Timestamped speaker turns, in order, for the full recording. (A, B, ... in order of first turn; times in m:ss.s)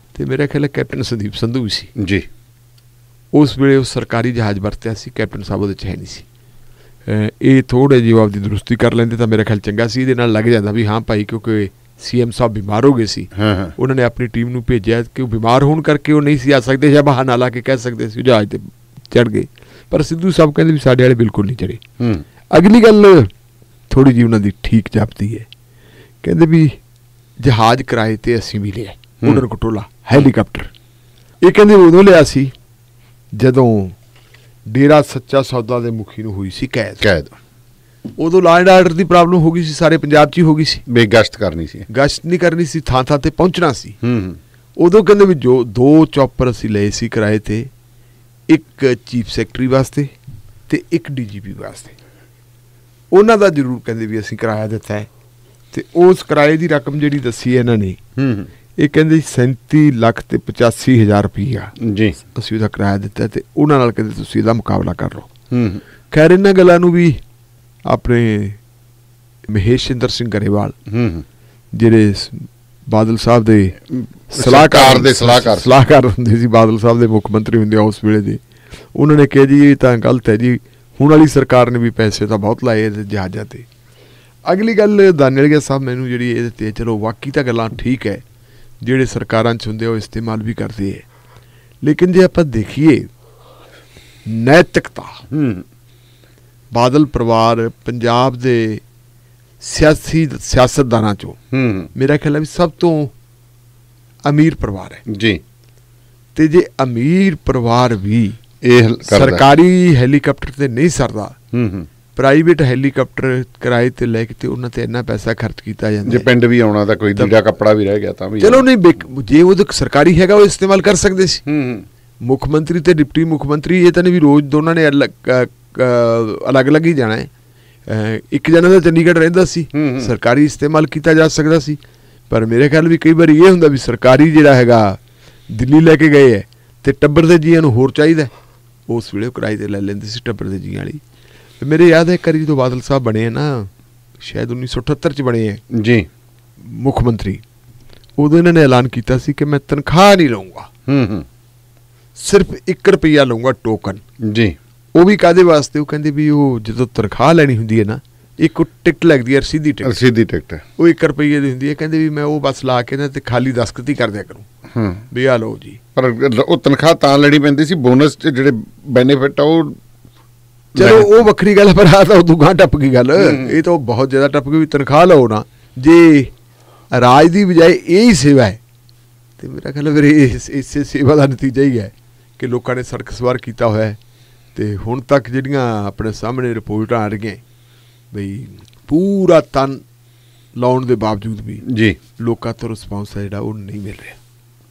0:00.1-0:01.9 A
0:02.0-0:02.2 B
0:03.3-0:06.2 A
0:07.0-0:21.8 A
0:13.3-0:13.7 B
0:22.0-0:22.2 B
0:22.5-0:23.3 A
0:23.9-0:25.5 A
0:26.2-0:26.8 A
0:27.4-0:30.7 A
0:31.4-0:32.5 A
0:33.4-0:34.0 A
0:34.7-0:37.0 A
0:37.0-0:37.3 B
0:38.2-0:40.8 A
0:40.9-0:41.9 B
0:41.9-0:44.0 A
0:44.0-0:44.4 B
0:44.8-0:47.7 A
0:48.5-0:50.1 A
0:50.7-0:52.0 A
0:53.1-0:55.1 A
0:55.7-0:58.0 A
0:58.2-0:58.5 B
0:58.8-1:05.3 A
1:01.8-1:02.2 B
1:05.5-1:05.8 B
1:06.1-1:07.2 A
1:07.8-1:08.6 A
1:09.5-1:10.8 A
1:10.9-1:11.2 B
1:11.7-1:18.4 A
1:14.0-1:15.8 B
1:18.9-1:23.6 A
1:24.5-1:28.2 A
1:28.8-1:31.0 A
1:31.8-1:33.1 A
1:34.3-1:35.2 A
1:35.3-1:35.6 B
1:36.7-1:38.8 A
1:39.6-1:41.4 A
1:41.5-1:41.9 B
1:41.9-1:43.1 A
1:44.2-1:45.0 A
1:45.1-1:45.4 B
1:46.3-1:48.4 A
1:48.6-1:49.4 B
1:49.0-1:51.4 A
1:51.5-1:51.9 B
1:52.2-1:56.3 A
1:56.0-1:58.6 B
1:58.4-2:01.4 A
2:01.4-2:01.8 B
2:02.2-2:07.3 A
2:07.9-2:18.3 A
2:09.7-2:10.1 B
2:18.9-2:21.0 A
2:21.6-2:25.6 A
2:25.7-2:26.1 B
2:26.6-2:27.4 A
2:28.2-2:30.7 A
2:30.9-2:31.2 B
2:32.2-2:34.0 A
2:34.2-2:34.6 B
2:34.9-2:40.0 A
2:39.8-2:40.6 B
2:40.8-2:44.4 A
2:44.7-2:45.0 B
2:45.1-2:45.8 A
2:46.0-2:49.8 B
2:50.7-2:51.1 B
2:50.7-2:56.3 A
2:53.2-2:53.5 B
2:56.9-2:58.6 A
2:59.4-3:04.0 A
3:04.5-3:07.4 A
3:08.1-3:09.8 A
3:10.6-3:11.6 A
3:11.7-3:12.0 B
3:12.2-3:14.2 A